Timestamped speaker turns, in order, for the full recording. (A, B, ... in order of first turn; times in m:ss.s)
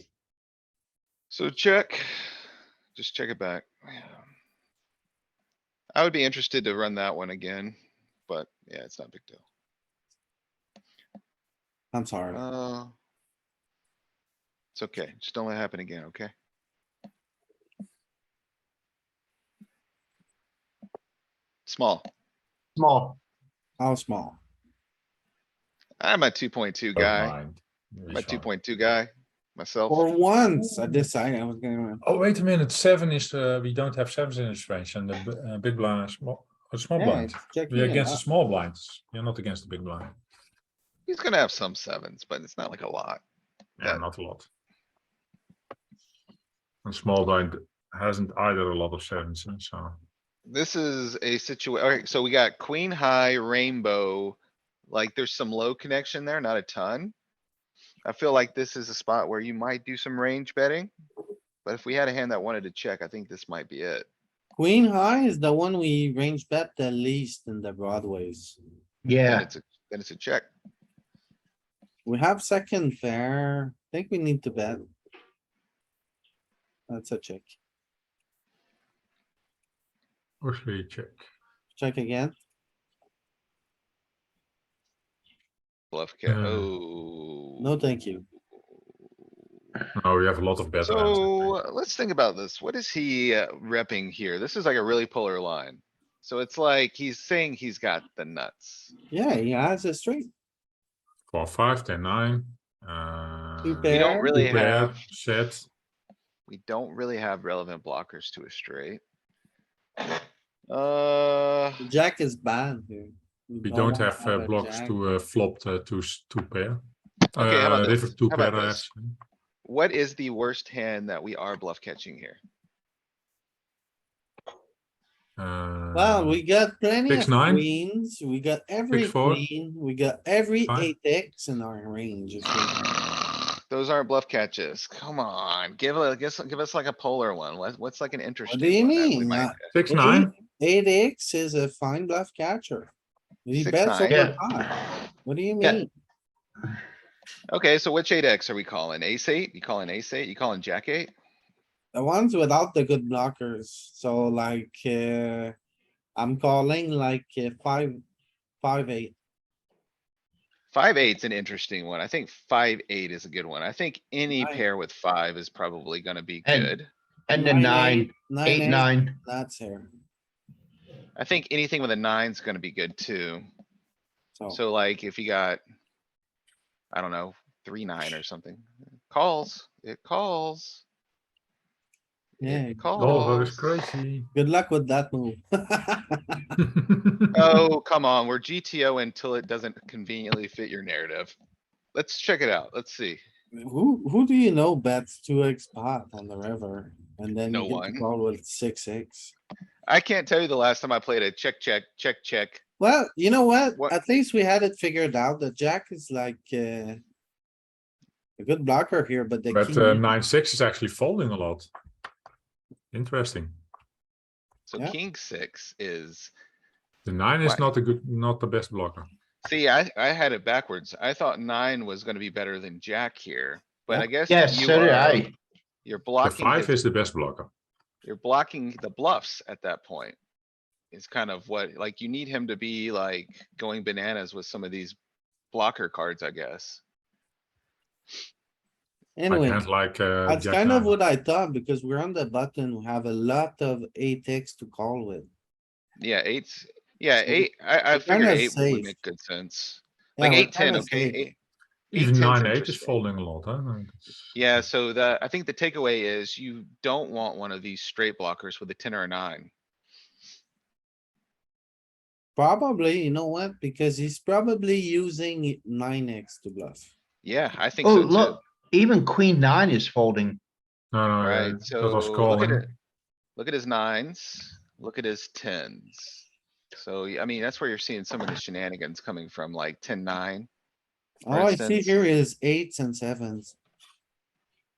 0:01.3-0:02.3 A
0:03.0-0:04.2 A
0:06.0-0:07.8 A
0:08.3-0:09.4 A
0:11.9-0:12.4 B
0:12.3-0:13.0 A
0:14.8-0:16.3 A
0:21.7-0:22.1 A
0:22.8-0:23.2 C
0:23.8-0:24.4 B
0:26.0-0:27.4 A
0:27.0-0:28.5 D
0:28.1-0:30.0 A
0:29.9-0:32.0 B
0:32.0-0:40.1 D
0:37.0-0:38.2 B
0:41.1-0:43.2 A
0:43.8-0:44.5 D
0:46.8-0:50.0 D
0:50.5-0:57.1 A
0:58.0-1:00.9 A
1:01.6-1:04.1 A
1:04.6-1:08.6 B
1:09.0-1:09.5 C
1:09.2-1:10.5 A
1:12.0-1:14.8 B
1:16.9-1:17.6 B
1:20.4-1:21.2 D
1:21.7-1:22.4 B
1:25.9-1:27.7 A
1:26.3-1:26.7 D
1:27.6-1:28.2 B
1:30.0-1:31.6 D
1:30.8-1:38.9 A
1:39.1-1:40.3 B
1:41.3-1:45.7 D
1:43.6-1:44.7 B
1:43.9-1:45.0 A
1:46.5-1:49.0 A
1:50.7-1:51.8 A
1:51.8-1:55.0 B
1:53.6-1:56.8 D
1:57.3-1:58.9 A
1:57.4-1:59.2 D
1:59.6-2:02.4 A
2:05.4-2:06.4 D
2:05.9-2:12.8 B
2:07.1-2:07.6 D
2:08.9-2:09.4 D
2:13.7-2:19.7 A
2:18.5-2:22.9 B
2:19.7-2:20.3 D
2:23.5-2:24.7 B
2:23.6-2:24.3 A
2:24.1-2:24.4 C
2:25.2-2:25.9 B
2:27.5-2:31.1 A
2:31.9-2:35.6 B
2:36.2-2:38.0 B
2:38.6-2:39.2 B
2:40.7-2:46.9 A
2:44.3-2:44.6 B
2:46.4-2:46.8 C
2:47.3-2:49.2 C
2:47.3-2:49.9 B
2:51.2-2:53.5 A
2:54.5-2:55.6 A
2:56.9-3:00.8 A
3:02.4-3:03.7 A
3:02.4-3:03.2 B
3:03.0-3:04.3 D
3:04.4-3:06.5 B
3:07.0-3:07.5 D
3:07.3-3:11.4 A
3:11.9-3:13.2 A
3:13.6-3:19.3 B
3:17.5-3:18.1 A
3:19.9-3:22.6 A
3:22.8-3:27.0 B
3:28.4-3:30.1 B
3:29.5-3:31.7 D
3:32.9-3:33.6 D
3:34.7-3:36.3 A
3:37.0-3:39.1 D
3:37.4-3:37.7 A
3:39.4-3:45.3 A
3:43.9-3:45.4 C
3:45.8-3:46.8 A
3:46.2-3:47.5 D
3:48.0-3:50.2 A
3:50.9-3:55.0 A
3:55.5-3:56.8 A
3:59.2-3:59.6 B
3:59.3-4:01.0 D
4:00.3-4:05.3 B
4:06.0-4:11.4 A
4:07.2-4:09.0 B
4:10.2-4:11.2 B
4:11.9-4:13.0 A
4:12.0-4:14.0 D
4:14.3-4:19.5 A
4:22.4-4:26.9 B
4:27.2-4:28.4 A
4:27.8-4:30.4 C
4:30.9-4:32.7 D
4:31.2-4:32.7 A
4:33.4-4:36.2 A
4:36.8-4:40.5 A
4:41.2-4:43.6 B
4:41.3-4:42.0 A